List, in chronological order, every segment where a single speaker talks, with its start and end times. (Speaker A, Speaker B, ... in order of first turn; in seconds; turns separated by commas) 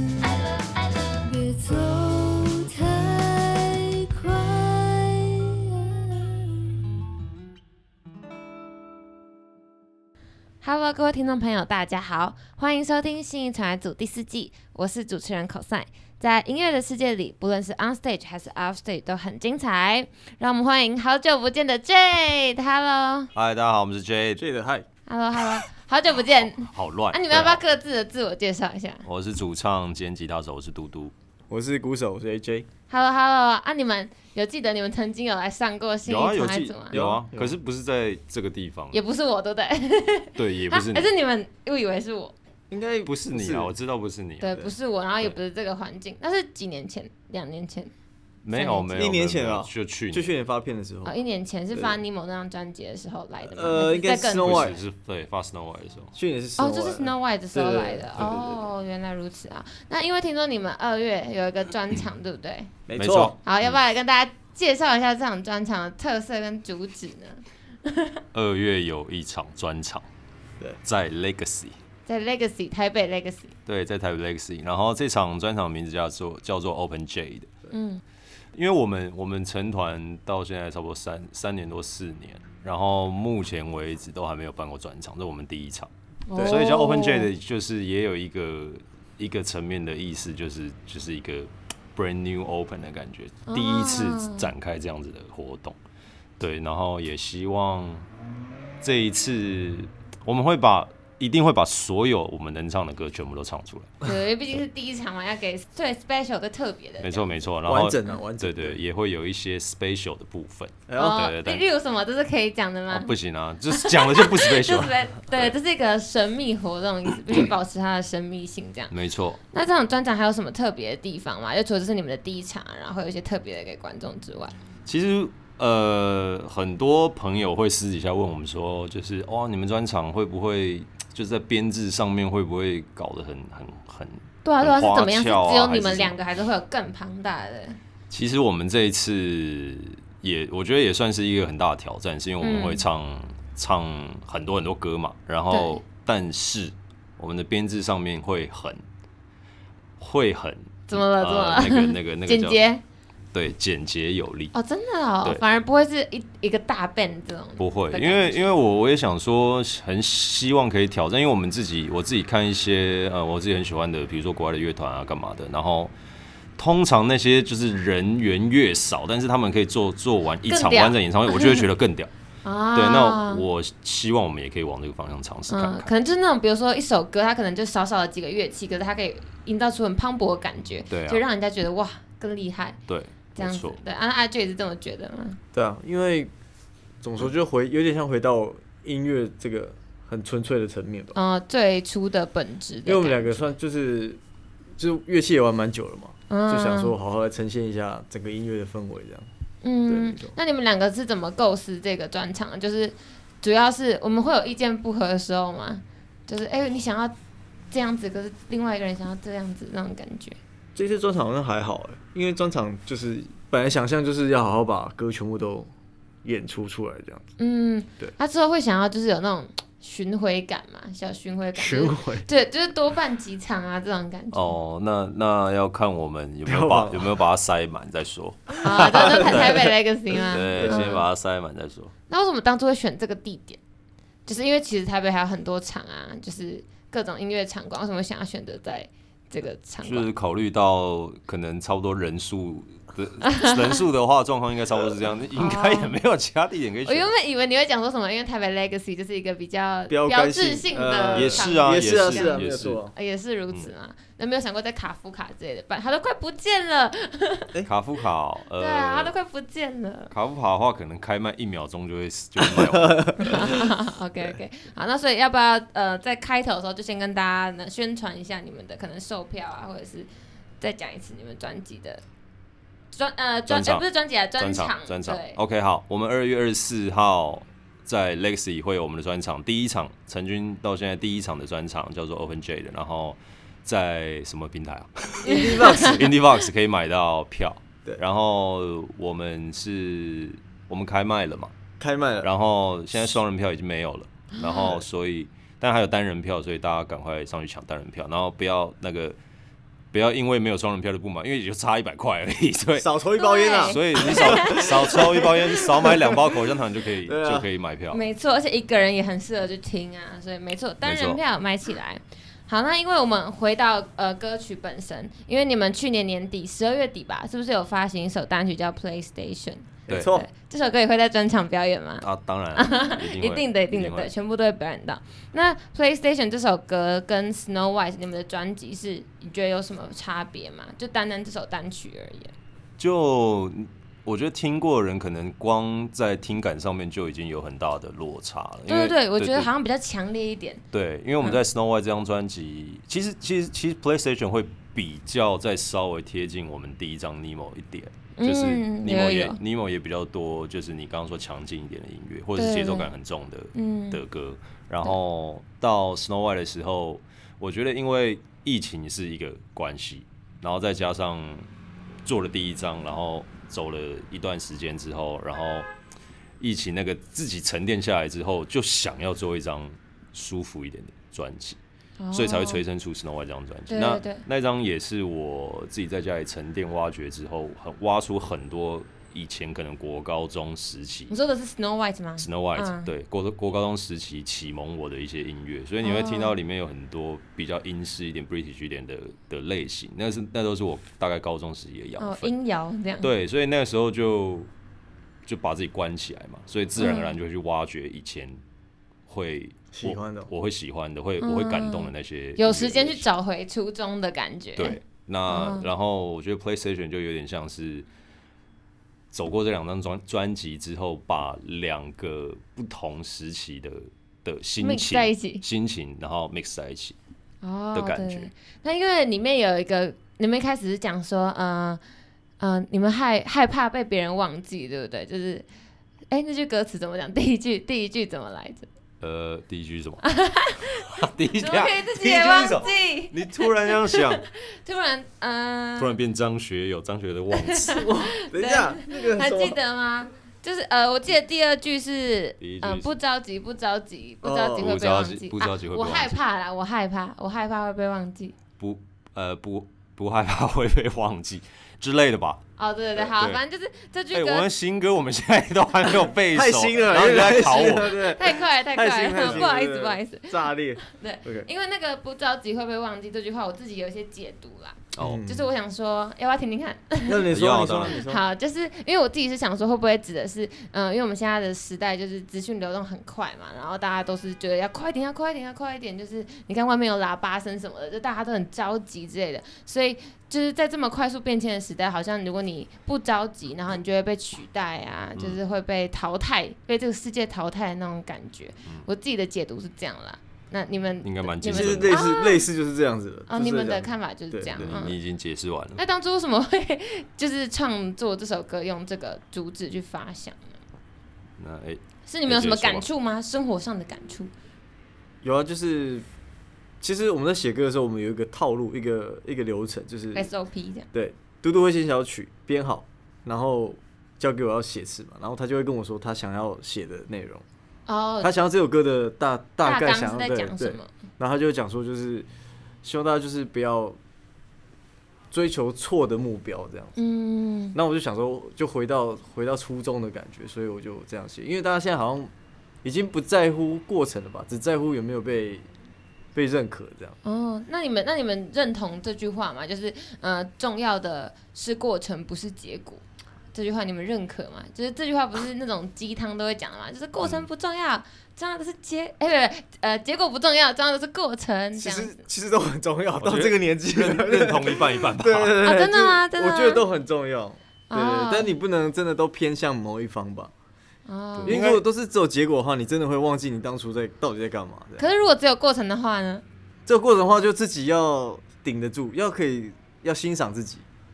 Speaker A: 0.2-6.7, Speaker B: 10.6-23.3, Speaker C: 23.3-24.4, Speaker D: 24.4-24.9, Speaker B: 25.1-29.0, Speaker C: 26.6-27.6, Speaker C: 29.0-31.1, Speaker D: 31.5-32.7, Speaker B: 32.9-37.0, Speaker C: 36.0-39.0, Speaker D: 36.9-37.5, Speaker B: 38.9-42.3, Speaker C: 40.4-41.1, Speaker D: 42.7-43.7, Speaker C: 43.0-44.6, Speaker B: 44.4-47.9, Speaker C: 48.4-50.3, Speaker B: 48.5-48.8, Speaker D: 48.9-51.1, Speaker B: 51.0-54.7, Speaker D: 53.4-54.8, Speaker C: 54.4-56.1, Speaker D: 56.1-58.3, Speaker B: 56.6-62.7, Speaker C: 58.2-58.6, Speaker D: 62.9-63.3, Speaker C: 62.9-63.8, Speaker B: 63.4-68.2, Speaker C: 68.3-70.0, Speaker C: 70.8-71.8, Speaker B: 72.0-73.5, Speaker C: 73.7-77.5, Speaker B: 77.7-78.0, Speaker C: 78.5-85.9, Speaker B: 86.3-87.3, Speaker D: 86.3-86.6, Speaker C: 86.4-95.8, Speaker B: 93.5-94.5, Speaker C: 96.4-98.1, Speaker C: 98.8-104.0, Speaker B: 104.0-107.3, Speaker C: 107.0-111.6, Speaker D: 107.7-108.8, Speaker D: 110.9-111.3, Speaker B: 110.9-113.1, Speaker C: 112.9-115.5, Speaker B: 113.7-118.9, Speaker C: 118.9-119.4, Speaker B: 119.5-124.5, Speaker C: 124.8-136.2, Speaker B: 134.4-137.8, Speaker C: 138.1-148.8, Speaker B: 142.4-142.8, Speaker B: 145.5-145.8, Speaker C: 150.0-152.6, Speaker B: 150.9-152.8, Speaker C: 153.3-154.5, Speaker B: 154.5-158.5, Speaker C: 157.6-165.9, Speaker C: 166.6-172.1, Speaker B: 170.4-171.6, Speaker B: 172.4-173.4, Speaker C: 172.7-175.9, Speaker B: 175.5-182.8, Speaker C: 180.9-181.2, Speaker C: 182.9-183.8, Speaker B: 183.3-185.4, Speaker D: 185.5-186.3, Speaker D: 187.0-191.2, Speaker B: 191.1-193.4, Speaker D: 192.8-194.2, Speaker D: 194.8-199.3, Speaker B: 196.3-196.9, Speaker B: 199.6-207.1, Speaker D: 199.9-200.4, Speaker B: 207.7-210.4, Speaker D: 210.7-215.7, Speaker D: 216.2-217.3, Speaker B: 217.4-224.6, Speaker D: 221.5-222.3, Speaker C: 224.3-231.9, Speaker D: 226.4-227.2, Speaker B: 228.6-231.0, Speaker D: 228.8-229.6, Speaker D: 230.5-230.9, Speaker B: 232.1-233.6, Speaker B: 234.2-240.1, Speaker C: 239.8-247.1, Speaker B: 243.2-243.8, Speaker B: 245.3-245.9, Speaker B: 246.8-257.5, Speaker D: 249.9-252.9, Speaker C: 251.2-252.8, Speaker C: 257.6-259.1, Speaker B: 258.6-260.1, Speaker C: 260.1-263.5, Speaker D: 262.4-263.6, Speaker B: 263.2-270.1, Speaker B: 270.6-272.0, Speaker B: 272.9-275.4, Speaker C: 273.5-273.9, Speaker C: 274.4-291.5, Speaker D: 285.2-286.2, Speaker B: 285.3-285.9, Speaker D: 291.8-292.3, Speaker C: 292.2-299.2, Speaker B: 294.3-294.7, Speaker C: 299.9-302.9, Speaker D: 302.8-306.4, Speaker B: 303.1-305.2, Speaker C: 303.6-308.0, Speaker D: 307.0-307.5, Speaker B: 307.9-332.3, Speaker C: 310.8-311.2, Speaker D: 319.9-320.3, Speaker C: 319.9-320.2, Speaker C: 322.0-324.1, Speaker C: 332.8-339.5, Speaker B: 338.7-340.6, Speaker C: 340.7-361.5, Speaker B: 348.2-349.4, Speaker B: 352.4-352.9, Speaker B: 353.5-354.0, Speaker C: 362.0-365.7, Speaker C: 366.4-371.6, Speaker B: 372.0-372.6, Speaker C: 372.1-381.1, Speaker B: 373.7-374.2, Speaker B: 381.1-382.9, Speaker C: 382.2-392.3, Speaker B: 385.8-386.3, Speaker B: 392.0-393.1, Speaker C: 393.0-394.5, Speaker C: 395.2-398.4, Speaker B: 396.8-397.2, Speaker C: 399.1-403.1, Speaker D: 399.7-400.3, Speaker B: 401.2-405.7, Speaker C: 404.6-407.9, Speaker C: 409.1-416.9, Speaker B: 414.6-415.4, Speaker B: 417.4-421.8, Speaker C: 417.7-418.3, Speaker B: 422.4-425.4, Speaker B: 426.1-428.7, Speaker C: 429.0-430.0, Speaker B: 430.0-435.9, Speaker C: 430.9-434.2, Speaker C: 435.8-437.8, Speaker B: 437.3-448.3, Speaker D: 437.7-439.6, Speaker C: 442.4-443.0, Speaker D: 444.2-444.7, Speaker C: 444.5-446.1, Speaker C: 448.6-452.4, Speaker B: 452.6-454.5, Speaker C: 453.0-453.4, Speaker C: 454.1-458.0, Speaker D: 456.3-461.5, Speaker B: 457.6-467.3, Speaker C: 459.2-459.4, Speaker C: 464.9-465.2, Speaker D: 465.0-465.5, Speaker D: 467.1-468.2, Speaker C: 467.3-468.0, Speaker B: 467.9-492.5, Speaker C: 491.0-492.0, Speaker D: 491.4-494.6, Speaker B: 493.3-495.0, Speaker C: 494.6-495.8, Speaker B: 495.8-500.5, Speaker C: 501.4-502.9, Speaker B: 502.1-504.3, Speaker D: 505.2-506.0, Speaker D: 506.8-510.3, Speaker B: 510.1-510.9, Speaker D: 510.9-517.4, Speaker B: 517.9-518.3, Speaker D: 518.2-522.2, Speaker B: 519.6-520.9, Speaker D: 522.8-524.0, Speaker D: 525.3-527.0, Speaker B: 527.0-527.8, Speaker D: 527.7-532.3, Speaker D: 532.8-535.7, Speaker D: 536.3-537.1, Speaker B: 537.2-552.2, Speaker C: 547.2-547.5, Speaker D: 551.7-560.5, Speaker C: 553.2-555.6, Speaker B: 555.6-556.9, Speaker B: 557.9-558.5, Speaker B: 561.0-561.6, Speaker C: 561.4-561.8, Speaker D: 561.4-565.0, Speaker B: 565.0-566.4, Speaker D: 566.9-570.9